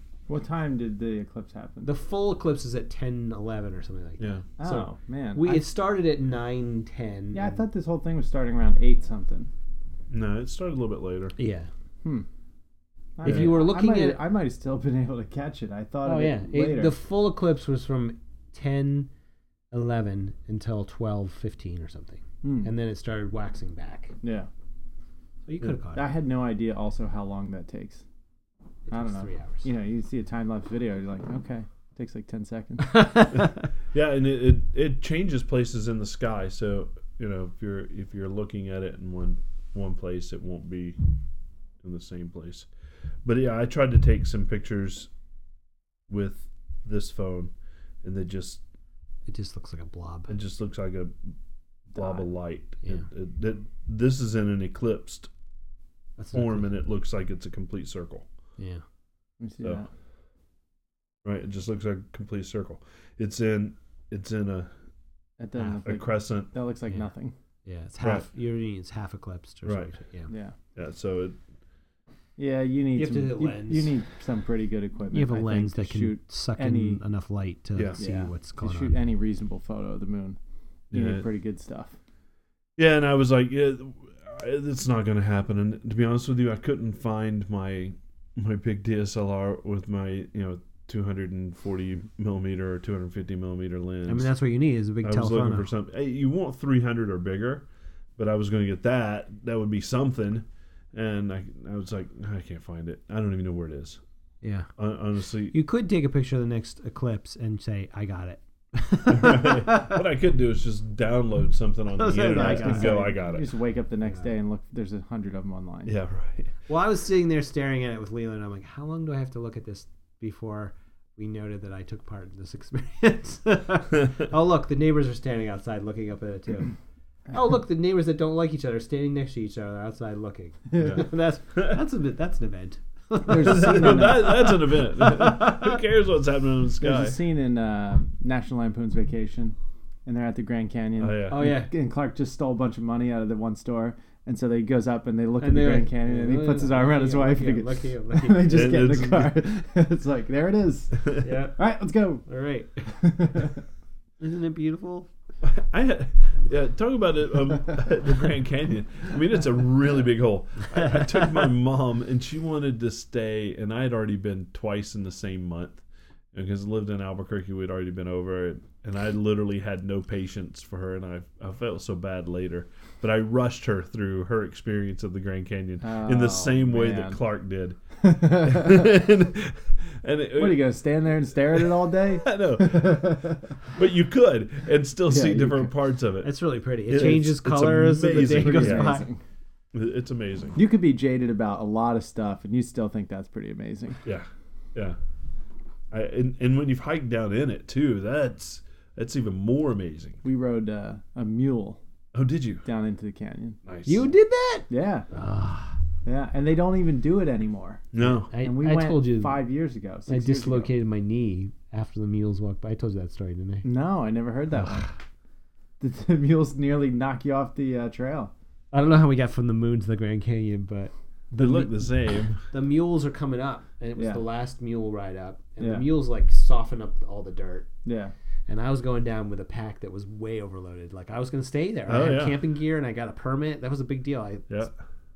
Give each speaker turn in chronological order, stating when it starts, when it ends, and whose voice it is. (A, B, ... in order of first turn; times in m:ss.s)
0:00.3-0:01.9 A
0:01.8-0:07.6 B
0:04.2-0:04.4 C
0:04.6-0:05.6 A
0:07.3-0:09.5 A
0:10.1-0:11.3 C
0:11.4-0:11.7 B
0:13.2-0:16.9 A
0:13.2-0:14.2 B
0:16.0-0:19.1 B
0:19.7-0:24.2 B
0:22.4-0:22.7 A
0:24.2-0:24.5 A
0:25.5-0:26.0 B
0:25.9-0:28.0 A
0:28.9-0:29.7 B
0:28.9-0:33.1 A
0:32.8-0:33.6 B
0:33.9-0:41.0 C
0:41.8-0:42.7 C
0:43.2-0:45.1 C
0:46.1-0:47.5 C
0:48.0-0:48.6 C
0:49.2-0:50.3 B
0:50.3-0:51.1 C
0:51.9-0:55.3 C
0:51.9-0:52.2 A
0:56.2-0:56.7 B
0:56.3-0:58.2 C
0:58.6-0:58.8 B
0:59.4-0:59.9 A
1:01.2-1:04.7 C
1:05.4-1:07.3 A
1:05.8-1:06.5 C
1:07.6-1:10.3 B
1:08.0-1:08.2 C
1:09.6-1:09.9 C
1:10.3-1:10.5 A
1:10.8-1:11.4 C
1:12.4-1:17.0 A
1:12.9-1:13.9 B
1:15.1-1:19.0 B
1:17.8-1:18.0 C
1:18.0-1:20.4 A
1:20.9-1:21.2 C
1:20.9-1:22.0 A
1:22.8-1:34.3 C
1:34.1-1:35.7 B
1:35.0-1:37.6 C
1:38.2-1:44.0 C
1:44.4-1:44.7 B
1:44.8-1:45.5 C
1:45.5-1:50.0 B
1:49.1-1:53.5 C
1:51.9-1:53.1 B
1:52.3-1:55.9 A
1:55.9-1:56.5 C
1:56.7-2:06.7 B
2:07.3-2:15.8 B
2:10.8-2:11.8 C
2:13.2-2:14.5 A
2:13.4-2:17.2 C
2:16.8-2:32.2 A
2:21.0-2:21.5 C
2:21.3-2:21.7 B
2:25.4-2:28.8 B
2:28.4-2:29.4 C
2:31.2-2:31.6 B
2:32.2-2:33.0 B
2:32.9-2:33.6 A
2:34.2-2:35.1 B
2:35.4-2:45.8 C
2:40.8-2:41.2 B
2:46.3-3:00.8 C
2:55.8-2:57.2 A
2:58.0-2:59.0 A
3:00.4-3:03.6 A
3:01.5-3:06.3 C
3:05.1-3:05.7 A
3:06.2-3:09.0 B
3:06.9-3:09.0 C
3:08.1-3:09.2 A
3:09.7-3:10.6 C
3:10.5-3:14.0 A
3:14.0-3:15.0 C
3:15.9-3:20.2 C
3:20.2-3:21.8 A
3:22.1-3:22.6 C
3:22.6-3:23.6 A
3:23.6-3:24.0 C
3:23.8-3:25.8 B
3:24.7-3:25.1 A
3:26.0-3:30.7 A
3:27.9-3:28.3 C
3:28.3-3:29.4 B
3:30.1-3:33.6 B
3:33.6-3:34.9 A
3:35.8-3:38.3 A
3:38.7-3:41.7 B
3:41.3-3:42.4 C
3:42.5-3:47.7 B
3:44.0-3:44.2 A
3:45.6-3:45.8 A
3:47.8-3:48.1 A
3:48.5-3:54.7 B
3:51.9-3:52.4 C